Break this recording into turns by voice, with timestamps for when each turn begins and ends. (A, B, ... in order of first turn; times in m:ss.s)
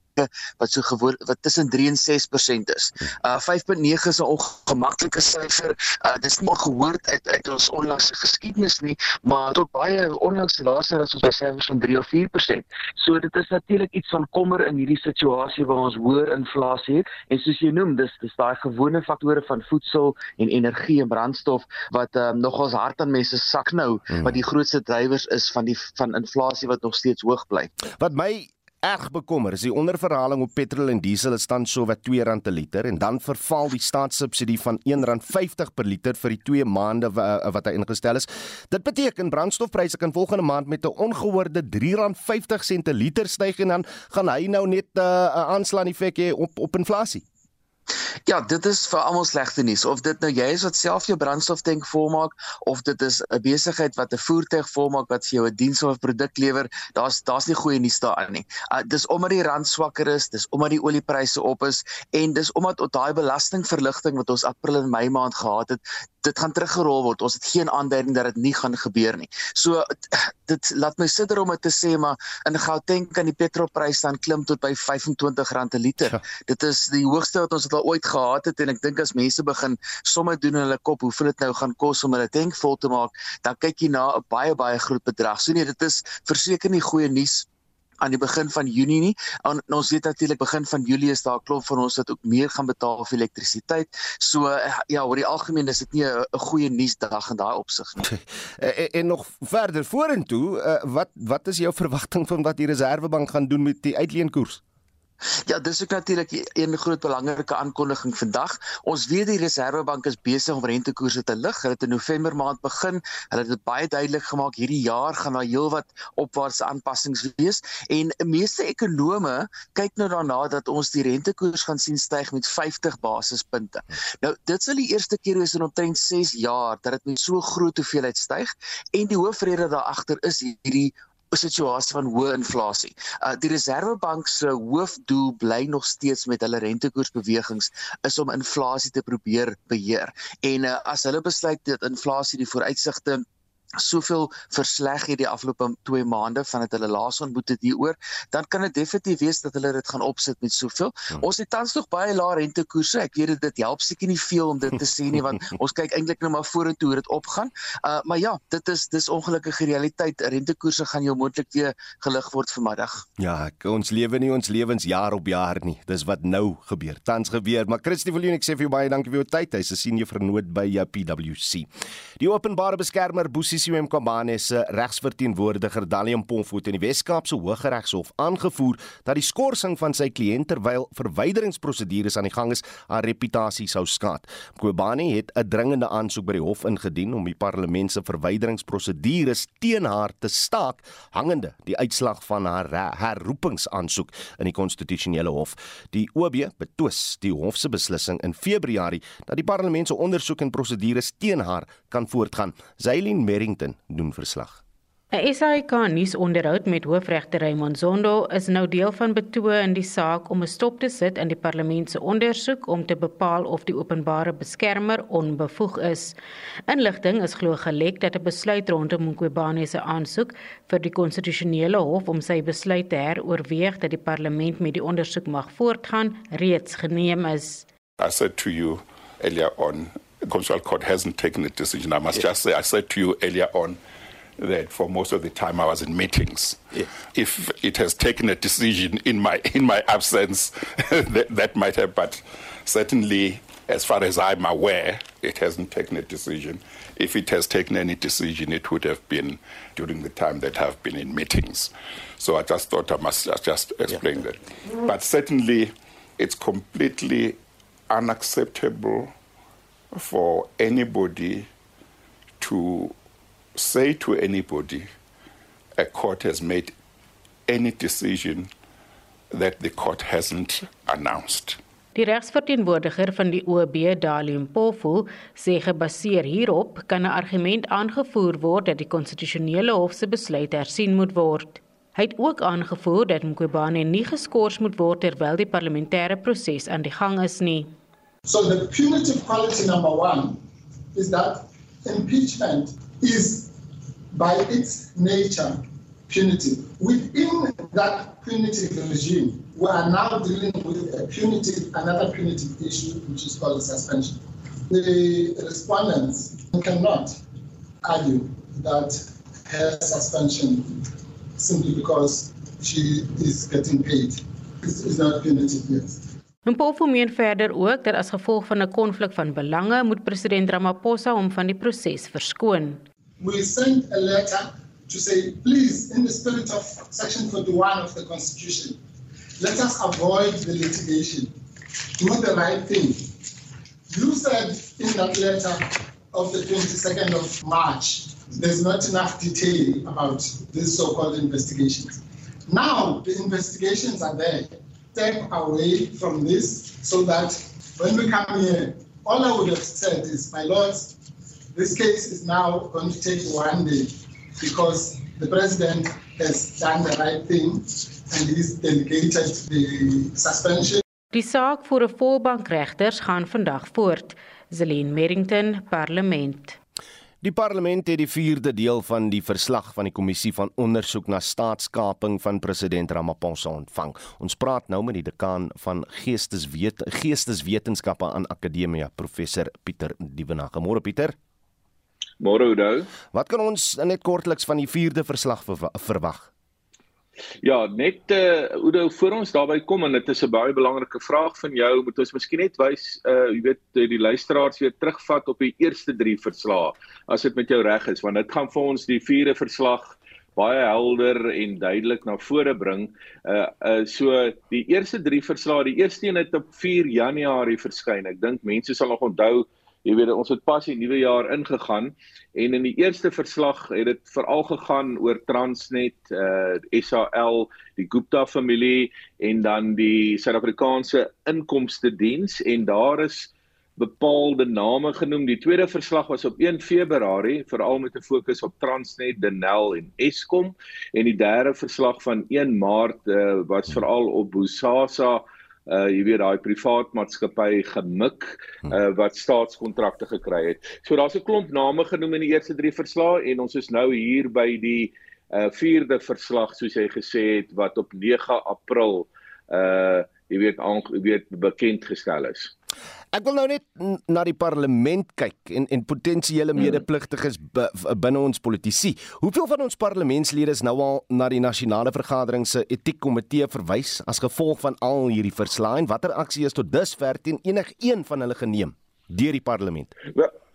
0:00.2-0:27.7 A
0:27.9-0:47.2 B
0:48.2-1:27.4 A
1:28.0-1:38.0 A
1:38.0-1:44.6 B
1:45.4-2:23.2 A
2:23.8-2:43.0 A
2:43.2-2:51.7 B
2:52.2-3:24.6 B
3:25.1-3:47.6 C
3:48.0-3:53.8 D
3:54.4-4:17.4 D
4:17.9-4:19.1 D
4:19.9-4:21.5 D
4:22.4-4:23.0 D
4:23.5-4:24.9 D
4:25.8-4:26.8 D
4:27.5-4:28.5 D
4:29.3-4:31.6 D
4:31.9-4:47.7 C
4:48.2-4:50.4 E
4:50.9-4:53.5 E
4:54.1-5:07.2 E
5:07.8-5:16.0 E
5:16.4-5:22.8 C
5:23.2-5:28.8 E
5:29.4-5:31.3 E
5:32.0-5:33.1 E
5:33.9-5:51.0 E
5:51.5-6:00.8 E
6:01.1-6:06.6 C
6:07.2-6:21.2 B
6:22.2-6:22.9 F
6:23.1-6:26.3 B
6:27.4-7:32.5 F
7:33.1-7:49.9 B